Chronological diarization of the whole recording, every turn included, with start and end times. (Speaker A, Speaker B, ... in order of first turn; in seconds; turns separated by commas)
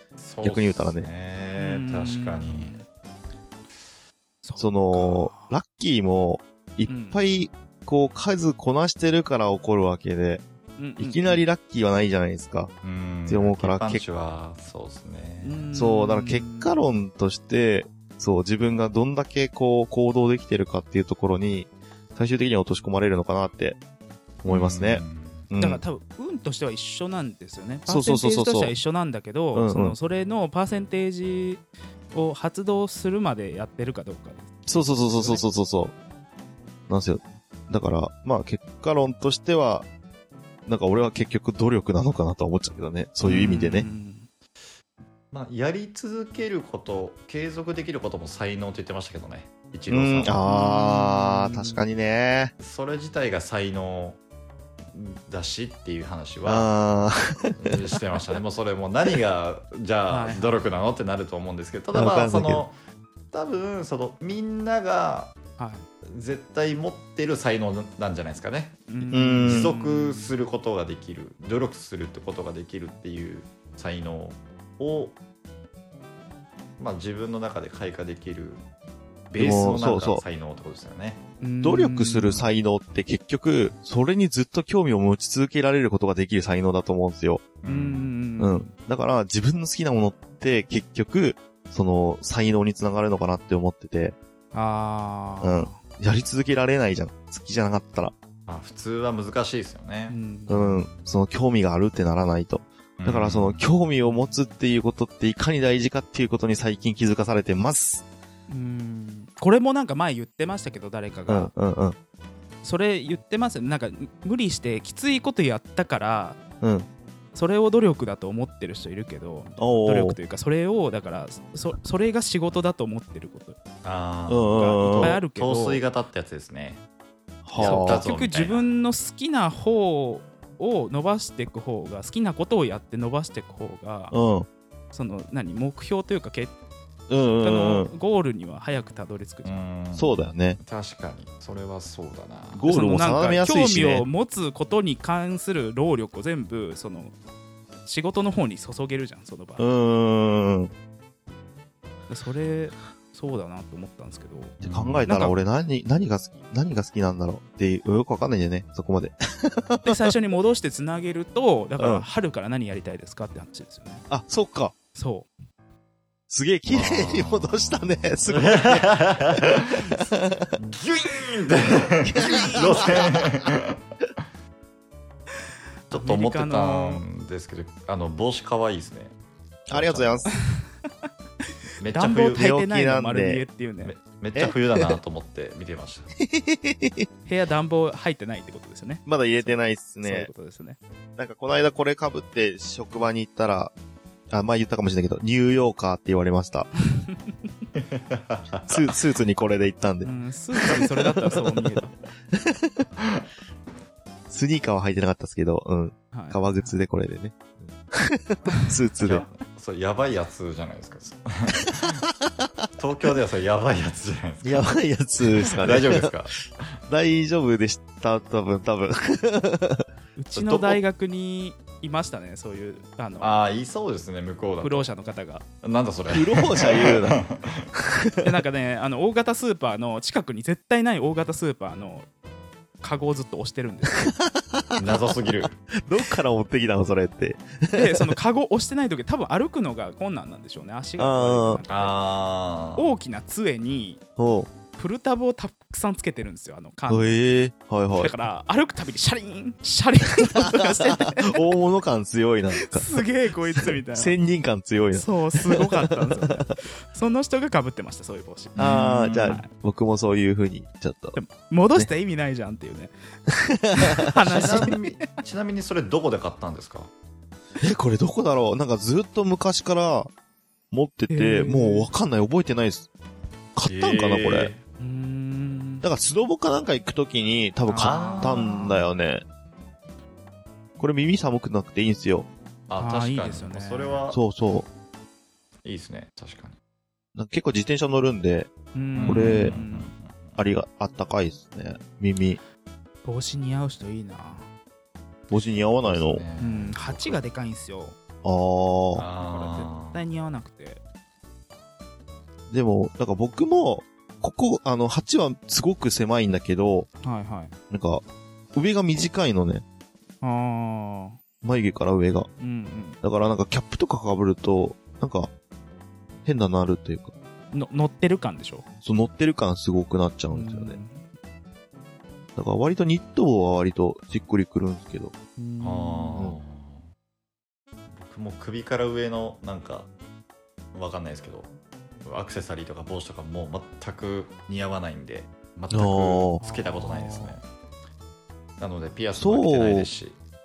Speaker A: 0.2-2.8, Speaker B: 0.4-1.1, Speaker C: 1.6-2.9, Speaker C: 4.4-5.5, Speaker B: 4.6-10.4, Speaker C: 6.9-7.2, Speaker C: 10.8-11.4, Speaker B: 11.0-12.7, Speaker A: 12.8-15.7, Speaker B: 13.3-14.0, Speaker C: 15.4-16.7, Speaker B: 15.7-23.8, Speaker B: 24.4-25.8, Speaker A: 24.5-25.5, Speaker C: 25.6-35.5, Speaker B: 27.9-28.8, Speaker B: 29.5-29.9, Speaker B: 34.7-35.9, Speaker B: 36.9-39.9, Speaker B: 40.6-43.9, Speaker C: 43.2-44.3, Speaker A: 45.3-50.5, Speaker B: 49.9-52.5, Speaker C: 50.4-51.8, Speaker A: 52.6-54.2, Speaker A: 54.9-56.7, Speaker B: 56.4-57.8, Speaker A: 57.6-62.7, Speaker C: 60.1-60.5, Speaker B: 61.9-62.6, Speaker A: 63.3-65.3, Speaker C: 65.6-65.8, Speaker A: 66.0-75.2, Speaker C: 68.9-70.3, Speaker B: 69.1-69.7, Speaker A: 76.8-78.6, Speaker A: 79.3-81.2, Speaker B: 79.3-80.2, Speaker C: 81.4-82.5, Speaker B: 81.6-87.5, Speaker A: 87.6-88.1, Speaker C: 87.7-88.7, Speaker B: 88.4-94.2, Speaker C: 94.5-95.8, Speaker B: 95.4-98.1, Speaker A: 98.5-100.2, Speaker C: 100.1-100.8, Speaker B: 100.5-108.0, Speaker A: 103.0-103.6, Speaker C: 104.0-104.3, Speaker C: 108.5-111.5, Speaker B: 111.3-112.0, Speaker C: 112.6-116.4, Speaker B: 116.6-116.9, Speaker C: 117.3-123.6, Speaker B: 119.6-120.2, Speaker A: 123.8-126.8, Speaker B: 124.3-125.2, Speaker C: 124.5-125.8, Speaker B: 127.5-128.1, Speaker A: 127.5-128.7, Speaker C: 127.6-134.1, Speaker B: 134.1-134.5, Speaker C: 134.9-136.5, Speaker B: 137.1-137.9, Speaker C: 137.4-139.6, Speaker A: 139.4-143.4, Speaker B: 139.9-140.6, Speaker B: 142.5-144.1, Speaker C: 142.7-147.1, Speaker C: 147.8-149.6, Speaker B: 149.6-150.7, Speaker C: 152.1-155.3, Speaker B: 154.6-160.1, Speaker A: 154.6-155.1, Speaker C: 159.8-164.0, Speaker B: 161.8-162.1, Speaker B: 164.1-164.7, Speaker C: 164.9-165.3, Speaker B: 166.3-170.5, Speaker A: 166.7-170.0, Speaker A: 170.6-173.8, Speaker B: 172.0-173.4, Speaker C: 172.2-173.0, Speaker C: 175.9-177.0, Speaker A: 175.9-179.1, Speaker B: 179.7-180.3, Speaker A: 179.7-180.3, Speaker C: 180.3-180.7, Speaker A: 181.8-182.5, Speaker C: 181.8-183.9, Speaker B: 182.3-183.4, Speaker A: 183.8-186.1, Speaker B: 184.3-184.9, Speaker B: 186.2-187.1, Speaker C: 187.2-190.8, Speaker B: 189.1-190.3, Speaker B: 191.2-193.7, Speaker B: 194.3-196.7, Speaker A: 197.8-198.9, Speaker B: 198.7-200.1, Speaker C: 200.0-201.9, Speaker B: 200.6-201.8, Speaker B: 202.3-202.8, Speaker B: 204.3-209.2, Speaker C: 206.1-206.8, Speaker C: 208.5-209.2, Speaker A: 209.0-212.1, Speaker B: 211.7-212.5, Speaker A: 212.8-214.7, Speaker B: 214.4-216.1, Speaker A: 215.3-216.4, Speaker B: 216.9-220.8, Speaker C: 220.2-223.4, Speaker A: 223.2-224.9, Speaker C: 224.6-225.4, Speaker A: 225.6-227.7, Speaker B: 226.1-227.2, Speaker B: 227.7-228.3, Speaker C: 228.2-232.1, Speaker C: 232.8-234.1, Speaker B: 234.1-235.1, Speaker A: 234.8-235.6, Speaker B: 235.8-238.1, Speaker C: 237.7-241.9, Speaker B: 241.0-241.6, Speaker A: 241.7-242.9, Speaker C: 242.8-244.0, Speaker B: 244.2-244.5, Speaker C: 244.8-247.1, Speaker B: 246.9-248.1, Speaker C: 247.9-251.4, Speaker B: 250.3-256.3, Speaker C: 252.6-254.2, Speaker C: 254.9-259.5, Speaker A: 258.6-259.4, Speaker B: 258.6-261.2, Speaker C: 261.1-262.9, Speaker B: 263.3-264.7, Speaker C: 263.8-265.1, Speaker A: 264.1-266.9, Speaker B: 267.6-270.1, Speaker B: 270.7-272.9, Speaker C: 271.1-271.9, Speaker B: 273.5-274.5, Speaker A: 273.6-274.6, Speaker C: 274.8-275.9, Speaker B: 275.8-279.2, Speaker C: 277.7-278.8, Speaker A: 277.8-278.7, Speaker B: 280.8-282.3, Speaker A: 282.7-284.2, Speaker C: 282.7-284.0, Speaker B: 284.1-284.7, Speaker A: 285.6-286.6, Speaker B: 287.1-288.5, Speaker C: 288.7-289.9, Speaker A: 289.0-290.4, Speaker B: 289.0-289.6, Speaker B: 290.4-292.4, Speaker C: 293.0-294.5, Speaker B: 295.3-296.2, Speaker A: 295.8-297.2, Speaker C: 296.4-297.9, Speaker B: 298.2-299.0, Speaker A: 298.9-300.0, Speaker C: 299.2-300.8, Speaker B: 302.5-306.9, Speaker C: 307.0-307.5, Speaker B: 307.7-308.0, Speaker B: 308.5-309.6, Speaker C: 310.2-311.2, Speaker B: 311.4-312.3, Speaker C: 312.4-313.0, Speaker B: 313.0-315.3, Speaker B: 316.2-317.1, Speaker C: 317.5-318.6, Speaker B: 318.8-320.8, Speaker C: 320.3-321.1, Speaker B: 322.4-325.1, Speaker C: 325.4-326.3, Speaker A: 325.6-326.9, Speaker A: 327.9-329.9, Speaker A: 330.7-331.5, Speaker A: 332.0-337.4, Speaker B: 335.7-336.4, Speaker C: 336.4-337.4, Speaker A: 338.6-340.1, Speaker B: 339.2-339.9